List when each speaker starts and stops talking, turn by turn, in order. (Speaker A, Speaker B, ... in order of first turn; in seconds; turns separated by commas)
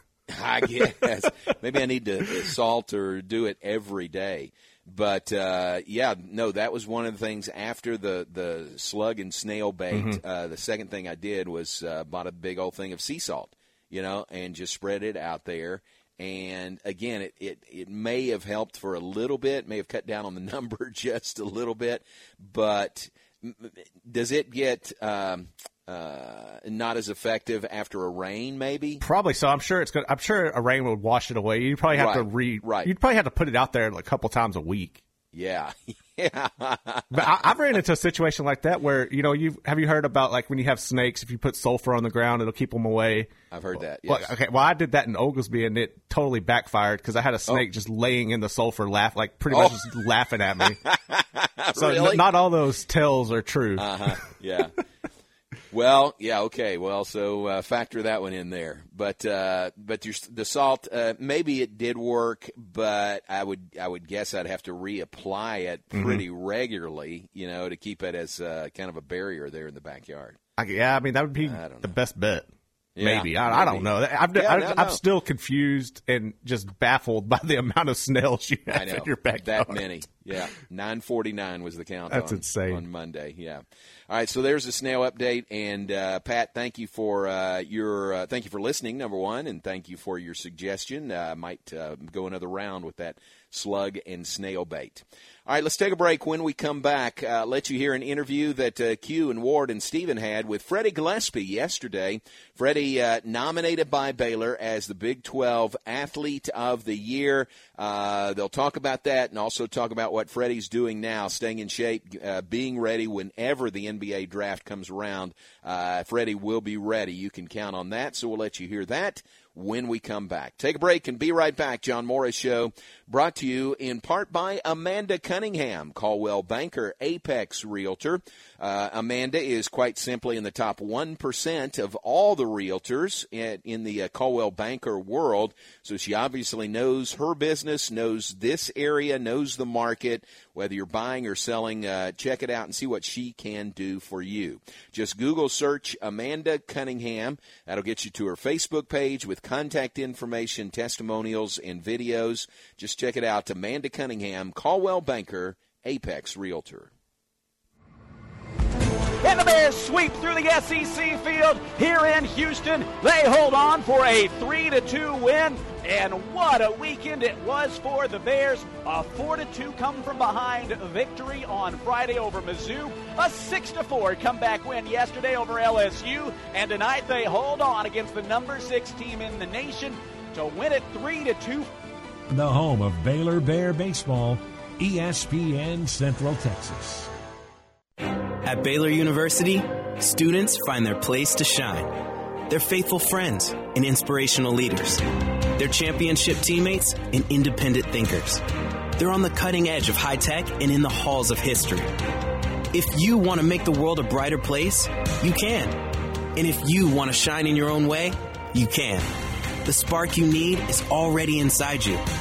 Speaker A: 0.3-29.0, Speaker B: 9.9-10.2, Speaker B: 29.0-35.0, Speaker A: 31.9-32.9, Speaker A: 35.3-37.2, Speaker B: 37.1-43.3, Speaker A: 43.5-44.3, Speaker B: 44.0-50.8, Speaker A: 49.5-49.8, Speaker A: 50.8-52.2, Speaker B: 51.8-53.9, Speaker A: 53.8-54.7, Speaker A: 55.7-70.4, Speaker B: 65.9-66.2, Speaker B: 70.6-72.5, Speaker A: 71.4-71.9, Speaker A: 73.0-75.0, Speaker B: 73.0-79.8, Speaker A: 78.7-156.9, Speaker B: 82.1-82.8, Speaker C: 159.2-181.7, Speaker D: 182.3-187.1, Speaker E: 188.4-198.4, Speaker E: 198.9-201.9, Speaker E: 202.7-205.8, Speaker E: 206.3-209.1, Speaker E: 209.6-212.0